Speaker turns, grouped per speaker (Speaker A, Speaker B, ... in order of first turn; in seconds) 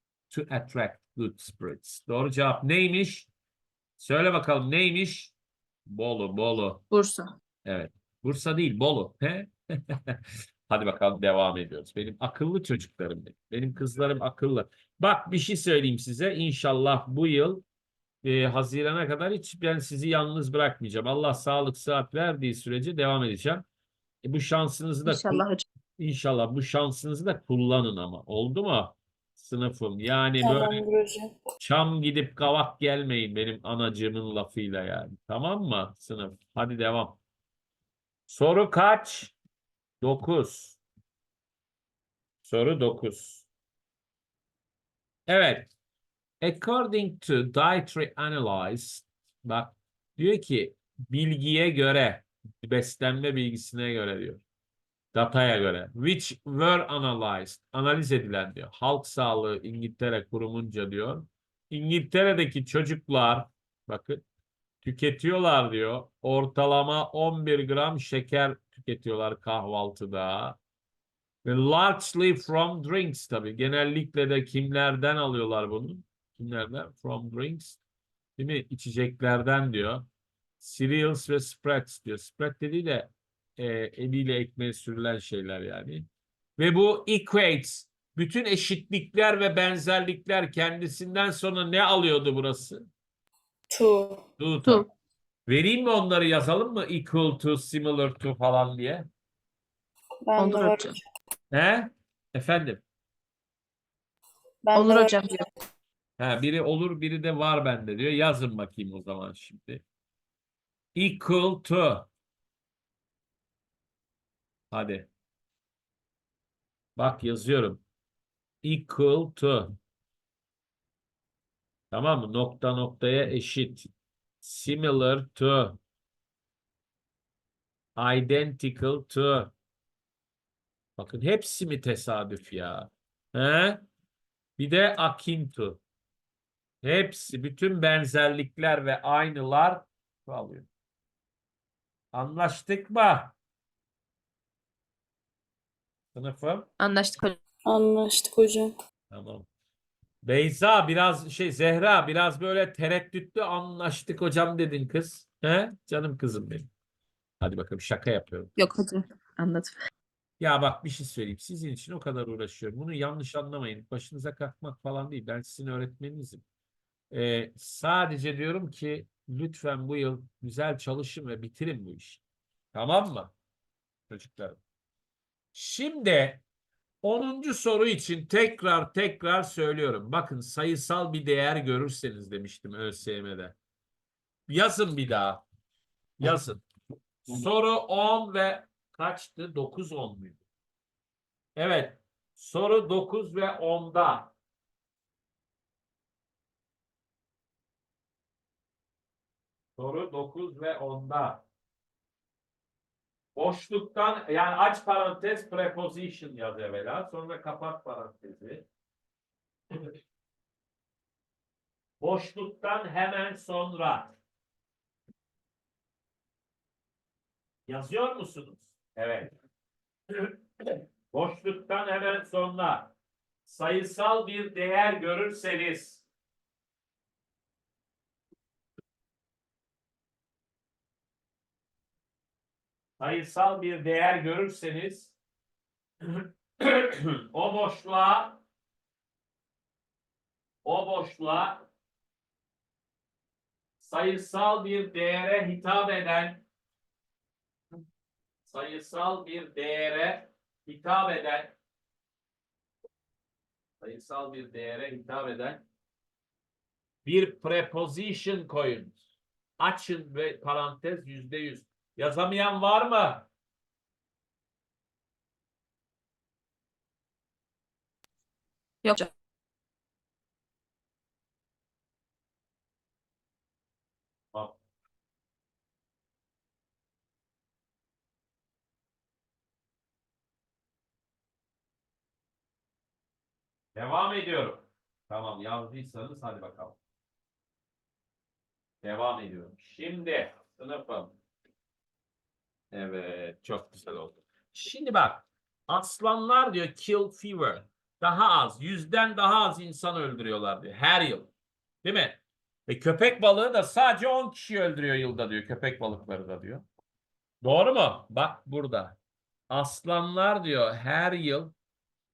Speaker A: 0.3-3.3, 4.0-5.3, 5.9-6.8, 7.6-17.6, 18.2-23.6, 24.2-25.4, 26.0-30.8, 31.6-37.2, 38.3-39.3, 40.0-40.8, 42.4-43.5, 45.3-45.7, 46.4-54.4, 55.1-64.2, 64.8-70.6, 71.4-77.8, 78.4-80.0, 80.6-86.0, 86.6-92.9, 94.4-94.8, 95.5-99.1, 101.5-102.8, 106.2-109.8, 110.9-112.1, 114.7-115.1, 117.0-117.8, 118.6-119.8, 121.9-123.9, 124.4-125.8, 128.0-129.5, 131.0-133.8, 134.6-135.8, 136.8-140.7, 142.1-143.3, 146.1-146.7, 149.1-149.5, 150.2-156.7, 157.4-158.5, 160.4-166.4, 167.1-172.2, 172.7-173.3, 174.1-174.6, 175.5-176.4, 177.0-183.6, 184.5-185.4, 186.2-186.6, 187.3-190.4, 191.6-194.3, 199.8-201.4, 203.3-208.7, 212.0-214.1, 217.7-219.3, 221.1-222.9, 223.4-226.0, 233.0-235.1, 236.1-238.4, 240.6-241.6, 243.8-246.4, 248.4-251.5, 253.8-255.6, 257.0-259.0, 259.6-263.3, 283.7-286.8, 288.8-291.1, 292.7-301.3, 301.8-306.6, 307.4-309.0, 309.5-311.5
Speaker B: 6.9-7.3, 25.1-25.6, 100.4-101.0, 104.7-105.5, 146.8-147.4, 158.6-159.8, 268.8-269.1
Speaker C: 30.4-31.3, 93.7-94.2, 100.2-101.0, 104.6-105.4, 147.7-148.7